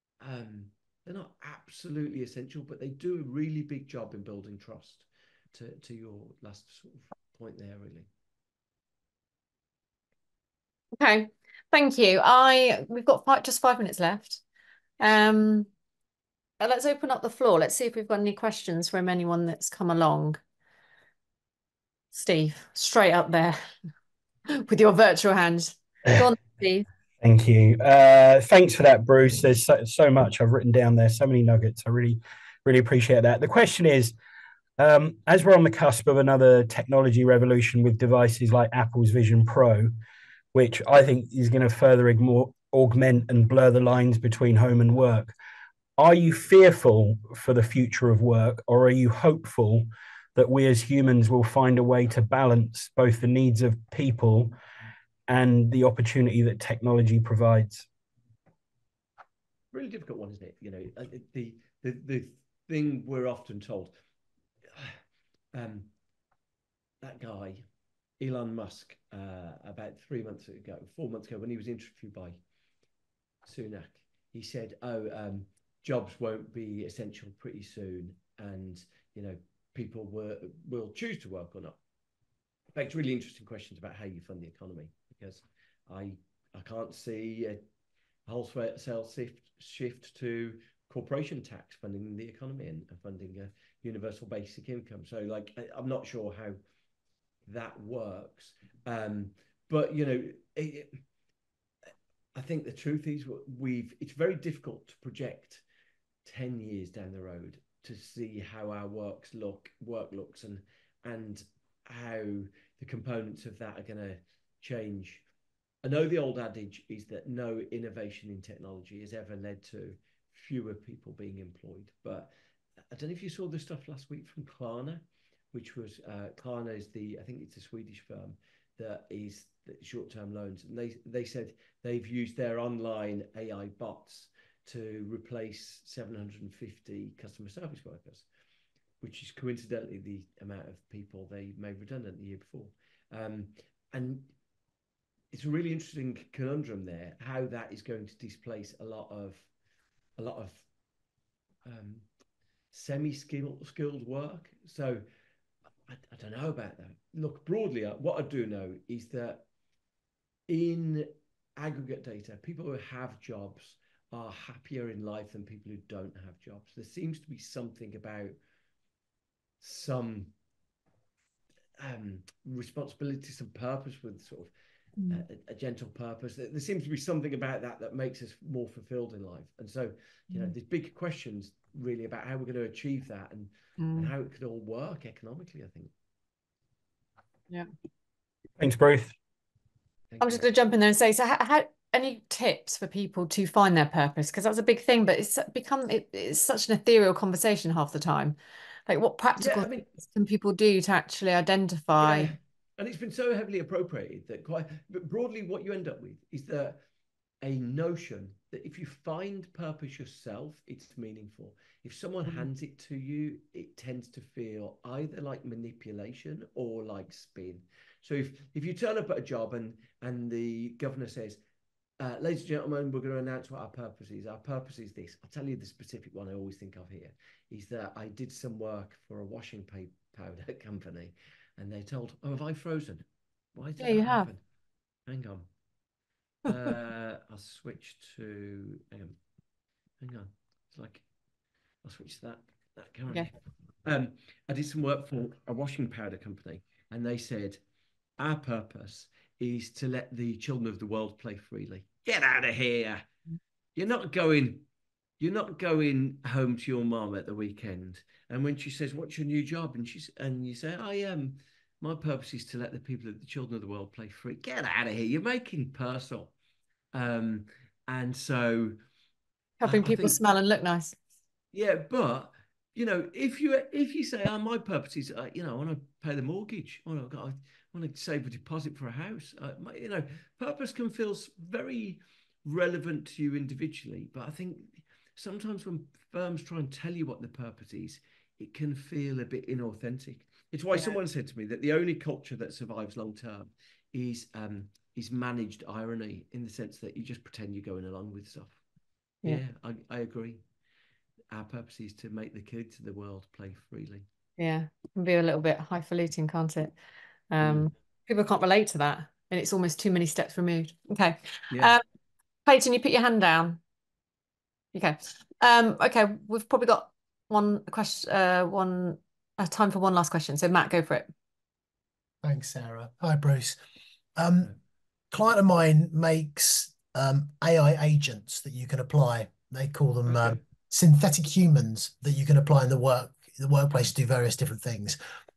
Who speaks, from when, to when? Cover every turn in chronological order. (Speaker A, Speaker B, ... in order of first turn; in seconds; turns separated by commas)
Speaker A: 0.2-8.1, Speaker B: 10.9-14.4, Speaker B: 15.0-15.7, Speaker B: 16.6-20.4, Speaker B: 22.1-23.6, Speaker B: 24.5-26.9, Speaker C: 27.2-34.1, Speaker C: 34.8-39.9, Speaker C: 40.5-45.3, Speaker C: 46.0-54.5, Speaker C: 55.3-57.9, Speaker A: 59.7-63.9, Speaker A: 64.7-65.0, Speaker A: 65.5-65.9, Speaker A: 67.0-67.6, Speaker A: 68.2-72.4, Speaker A: 73.4-81.8, Speaker A: 82.7-87.6, Speaker A: 88.2-96.6, Speaker A: 97.5-101.0, Speaker A: 102.3-105.6, Speaker A: 106.2-115.2, Speaker A: 115.8-122.3, Speaker A: 122.9-138.2, Speaker A: 139.0-144.3, Speaker A: 145.3-149.5, Speaker A: 150.2-150.6, Speaker A: 151.6-152.1, Speaker A: 152.7-155.0, Speaker A: 155.9-159.4, Speaker A: 160.5-168.3, Speaker A: 169.6-170.3, Speaker A: 171.8-174.5, Speaker B: 175.0-175.2, Speaker A: 175.1-185.9, Speaker B: 183.8-184.1, Speaker C: 188.6-189.1, Speaker A: 190.1-190.4, Speaker B: 190.2-202.3, Speaker A: 199.4-199.9, Speaker A: 202.0-206.8, Speaker A: 207.4-221.4, Speaker A: 222.0-234.4, Speaker B: 233.8-234.3, Speaker A: 235.1-235.5, Speaker A: 236.4-239.2, Speaker A: 240.0-241.0, Speaker A: 241.8-247.6, Speaker A: 248.2-253.1, Speaker A: 253.8-254.7, Speaker A: 255.2-266.3, Speaker A: 266.9-268.8, Speaker B: 269.6-270.9, Speaker A: 269.6-270.2, Speaker A: 271.5-298.6, Speaker A: 299.2-300.4, Speaker A: 301.3-304.1, Speaker B: 304.4-306.7, Speaker B: 307.3-311.8, Speaker A: 307.4-307.7, Speaker A: 311.5-311.8, Speaker B: 312.4-313.6, Speaker B: 314.7-321.1, Speaker D: 322.2-323.6, Speaker D: 324.1-324.5, Speaker D: 325.1-335.0